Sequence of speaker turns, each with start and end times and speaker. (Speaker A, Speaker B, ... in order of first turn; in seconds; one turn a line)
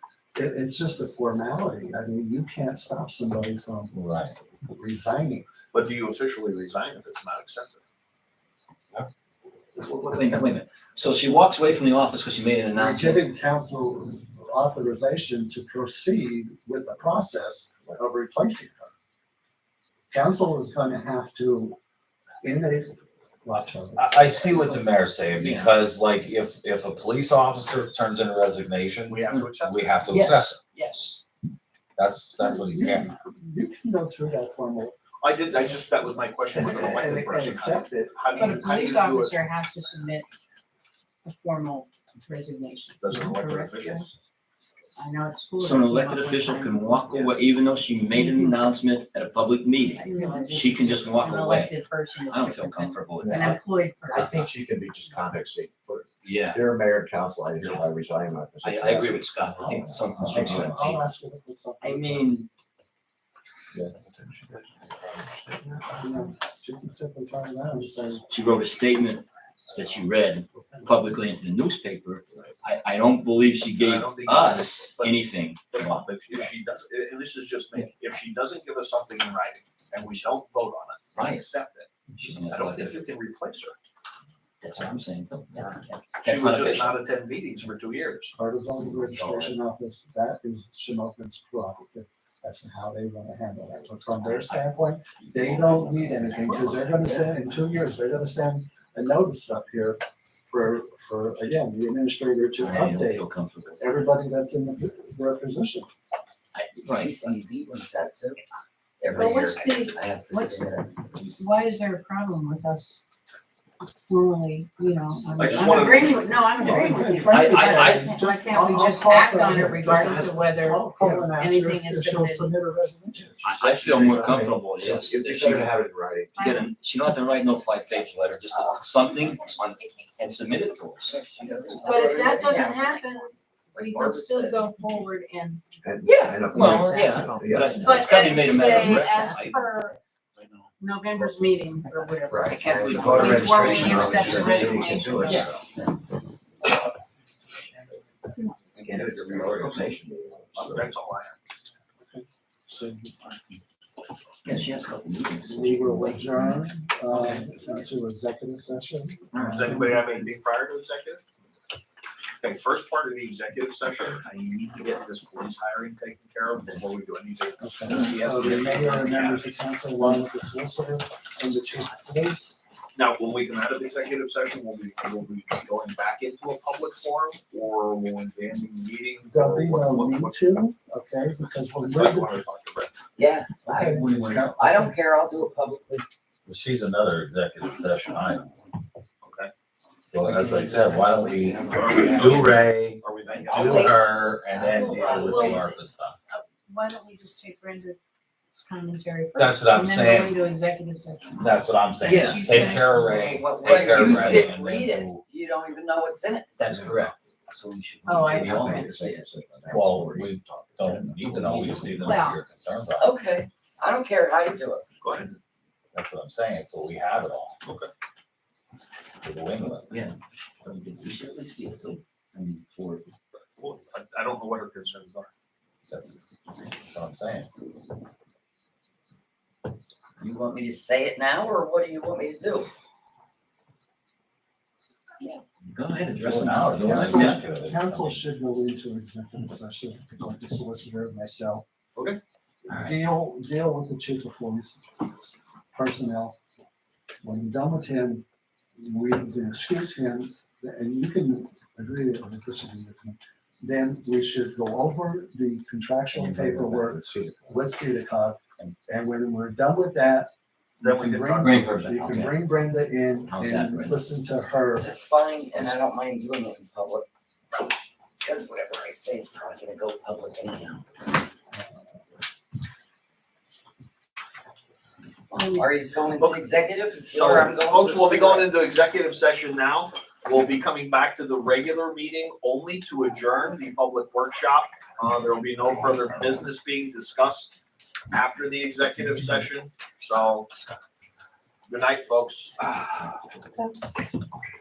Speaker A: 0.3-3.9
Speaker B: 3.9-4.3
Speaker A: 4.6-5.5
Speaker C: 5.7-7.8
Speaker D: 9.8-13.2
Speaker A: 12.7-18.9
Speaker A: 20.1-21.8
Speaker A: 22.4-24.8
Speaker B: 24.0-30.6
Speaker D: 25.4-25.7
Speaker C: 29.1-30.0
Speaker D: 30.1-31.2
Speaker B: 32.0-33.1
Speaker A: 32.4-35.0
Speaker C: 35.2-39.5
Speaker A: 36.5-38.9
Speaker E: 38.3-40.3
Speaker E: 41.2-44.1
Speaker C: 43.0-44.1
Speaker E: 45.0-47.3
Speaker D: 45.6-53.6
Speaker E: 48.1-48.6
Speaker E: 50.0-54.5
Speaker F: 53.2-60.9
Speaker D: 56.2-56.7
Speaker D: 57.6-57.8
Speaker D: 58.6-61.0
Speaker A: 60.1-62.4
Speaker D: 61.8-62.5
Speaker F: 63.7-64.8
Speaker F: 65.3-65.8
Speaker A: 65.9-68.2
Speaker D: 68.3-76.0
Speaker C: 73.8-75.2
Speaker C: 75.7-83.8
Speaker D: 81.1-81.5
Speaker D: 82.1-83.1
Speaker D: 84.6-87.0
Speaker C: 86.2-88.3
Speaker A: 88.3-103.3
Speaker D: 89.1-89.5
Speaker D: 94.2-96.4
Speaker C: 96.4-96.9
Speaker D: 102.6-103.8
Speaker A: 103.8-105.9
Speaker D: 106.5-107.1
Speaker G: 106.8-108.4
Speaker G: 109.0-111.2
Speaker E: 109.1-110.7
Speaker E: 111.3-113.0
Speaker E: 113.8-122.5
Speaker D: 115.2-115.8
Speaker A: 115.3-123.3
Speaker C: 115.3-116.9
Speaker D: 117.3-118.2
Speaker F: 123.3-126.4
Speaker D: 123.4-125.7
Speaker E: 126.3-126.7
Speaker D: 126.4-131.3
Speaker G: 128.5-128.9
Speaker G: 131.1-133.0
Speaker E: 131.8-140.0
Speaker G: 133.7-134.8
Speaker F: 135.8-138.5
Speaker D: 136.4-139.8
Speaker C: 139.1-139.5
Speaker E: 140.8-145.5
Speaker F: 142.3-145.6
Speaker D: 142.7-145.6
Speaker G: 143.8-145.5
Speaker F: 148.7-151.0
Speaker G: 148.8-149.8
Speaker C: 150.5-151.3
Speaker A: 152.0-153.1
Speaker D: 154.4-156.6
Speaker A: 155.4-160.0
Speaker D: 159.3-159.8
Speaker C: 159.3-161.2
Speaker C: 162.4-169.5
Speaker A: 167.6-172.5
Speaker C: 172.9-180.7
Speaker A: 179.2-182.3
Speaker C: 181.7-183.0
Speaker G: 183.2-186.1
Speaker A: 183.6-185.0
Speaker B: 186.4-188.5
Speaker C: 189.2-189.5
Speaker B: 190.1-196.2
Speaker G: 190.3-192.5
Speaker C: 190.4-190.9
Speaker C: 191.6-194.0
Speaker D: 193.3-193.8
Speaker G: 193.6-193.9
Speaker G: 194.5-195.6
Speaker E: 194.9-195.8
Speaker E: 196.3-198.0
Speaker E: 198.6-203.3
Speaker B: 199.3-200.4
Speaker B: 201.3-205.2
Speaker D: 202.0-204.5
Speaker G: 203.5-206.6
Speaker D: 206.6-209.9
Speaker F: 206.7-207.1
Speaker E: 208.0-209.0
Speaker F: 208.3-211.8
Speaker B: 209.7-213.1
Speaker D: 211.2-212.1
Speaker E: 212.0-212.4
Speaker G: 213.0-214.8
Speaker C: 215.0-215.3
Speaker B: 215.9-217.6
Speaker C: 217.6-217.9
Speaker B: 219.2-219.9
Speaker D: 219.9-223.0
Speaker C: 223.3-225.3
Speaker B: 225.9-226.1
Speaker B: 226.8-227.5
Speaker G: 230.2-232.7
Speaker D: 235.6-237.4
Speaker B: 236.1-238.2
Speaker A: 236.8-241.6
Speaker C: 241.9-242.2
Speaker A: 242.6-246.4
Speaker D: 242.7-243.0
Speaker A: 247.2-248.2
Speaker A: 248.8-264.9
Speaker B: 256.1-257.4
Speaker C: 260.8-261.9
Speaker D: 261.4-262.4
Speaker D: 263.3-264.0
Speaker G: 264.8-267.6
Speaker G: 268.2-270.8
Speaker G: 275.3-278.5
Speaker E: 275.4-275.7
Speaker C: 276.1-276.4
Speaker C: 277.0-287.6
Speaker C: 288.1-290.5
Speaker C: 291.7-292.7